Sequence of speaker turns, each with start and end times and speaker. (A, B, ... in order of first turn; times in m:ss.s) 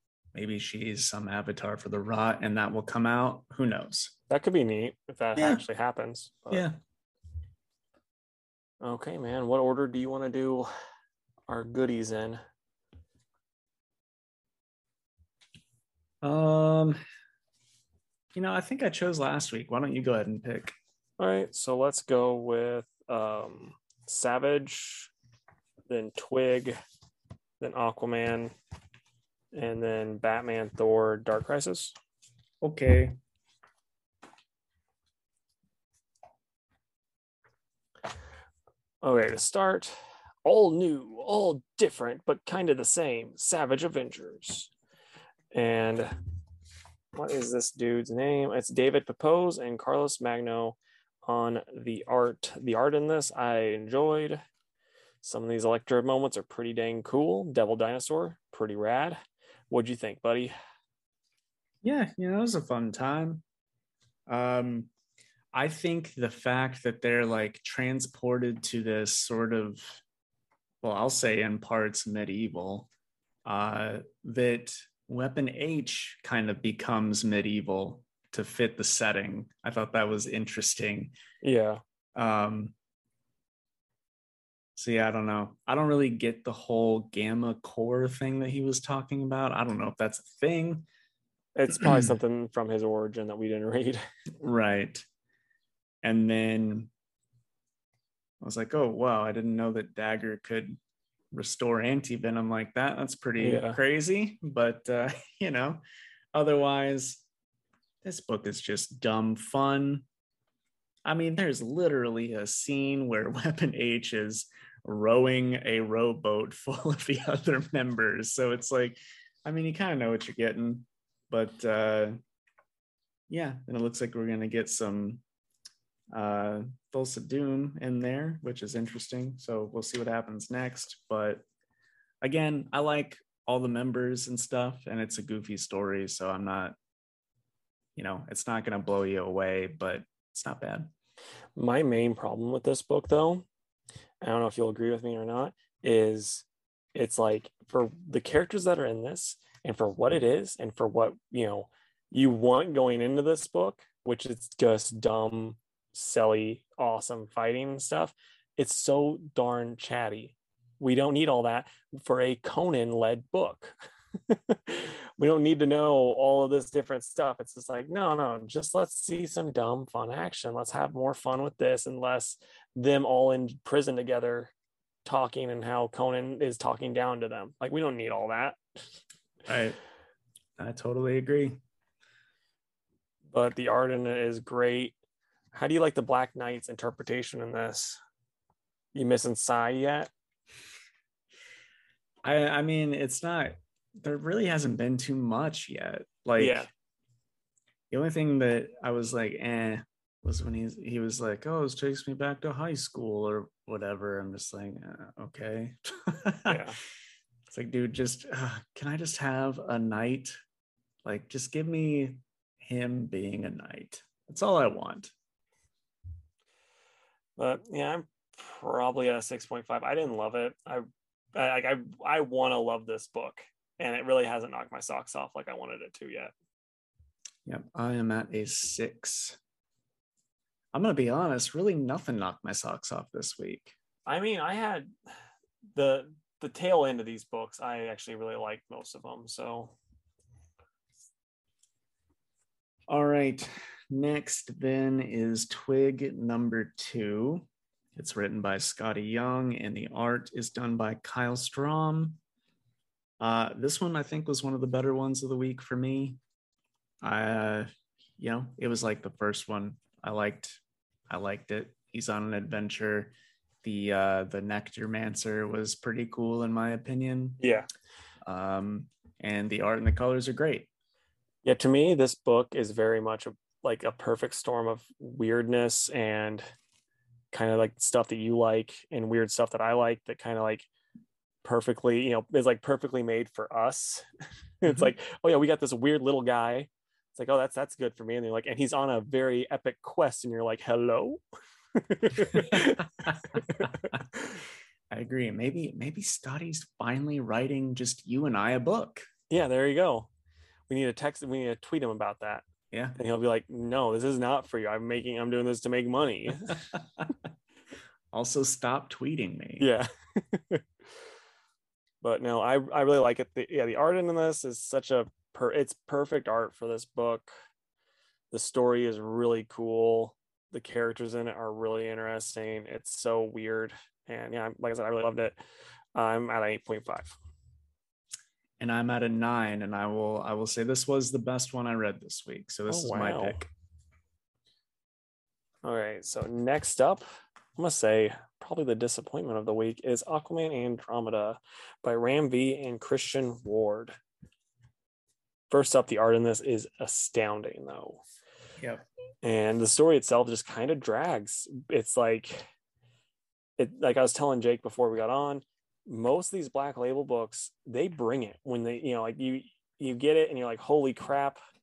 0:00.3-0:04.1 A
0:04.3-0:06.7 B
0:05.4-0:05.6 A
0:06.5-0:06.8 A
0:08.8-0:10.7 B
0:11.5-0:12.4 B
0:16.2-0:17.0 A
0:18.3-0:20.7 A
0:21.2-0:25.1 B
0:25.9-0:26.8 B
0:27.6-0:28.5 B
0:29.5-0:31.9 B
0:32.6-0:33.2 A
0:39.0-0:44.7 B
0:45.5-0:46.2 B
0:47.1-0:54.4 B
0:55.2-0:59.2 B
0:59.7-1:00.5 B
1:01.8-1:03.4 A
1:04.3-1:04.9 A
1:05.5-1:10.0 A
1:10.8-1:12.9 A
1:13.4-1:21.1 A
1:21.4-1:21.8 B
1:22.2-1:22.7 A
1:24.8-1:30.8 A
1:31.6-1:34.0 B
1:31.7-1:32.1 A
1:34.4-1:35.0 A
1:36.0-1:36.9 A
1:38.4-1:40.8 A
1:41.3-1:45.8 A
1:43.4-1:43.8 B
1:46.3-1:47.2 A
1:48.0-1:50.0 A
1:51.0-2:02.2 A
2:03.3-2:05.2 A
2:06.1-2:11.4 A
2:12.2-2:16.8 A
2:18.0-2:20.9 A
2:21.6-2:23.4 B
2:24.2-2:43.7 B
2:44.3-2:54.5 B
2:55.0-2:58.6 B
2:59.4-2:59.8 A
3:00.6-3:01.6 A
3:03.3-3:04.9 B
3:05.5-3:08.0 B
3:08.9-3:10.1 B
3:12.2-3:16.7 A
3:16.4-3:16.7 B
3:17.9-3:26.6 A
3:26.4-3:26.8 B
3:27.5-3:30.4 A
3:31.0-3:35.1 A
3:37.4-3:46.3 B
3:47.4-3:49.4 A
3:50.7-3:53.7 A
3:54.1-3:54.9 B
3:55.8-3:59.8 B
4:02.9-4:12.2 A
4:13.2-4:16.2 A
4:17.0-4:27.4 A
4:27.4-4:27.7 B
4:28.2-4:30.7 A
4:31.4-4:36.5 B
4:37.3-4:40.7 B
4:41.4-4:44.0 B
4:44.6-4:51.2 B
4:51.7-4:54.4 B
4:52.3-4:54.0 A
4:54.9-4:59.0 A
4:59.3-5:00.1 B
5:00.7-5:02.4 B
5:02.7-5:03.0 A
5:03.0-5:06.6 B
5:06.5-5:07.1 A
5:08.1-5:09.7 A
5:09.6-5:10.6 B
5:12.0-5:17.3 B
5:18.3-5:25.4 B
5:25.9-5:27.2 B
5:28.6-5:33.5 A
5:32.7-5:33.4 B
5:35.6-5:44.0 B
5:45.5-5:48.0 B
5:49.2-5:52.5 B
5:53.6-6:01.4 B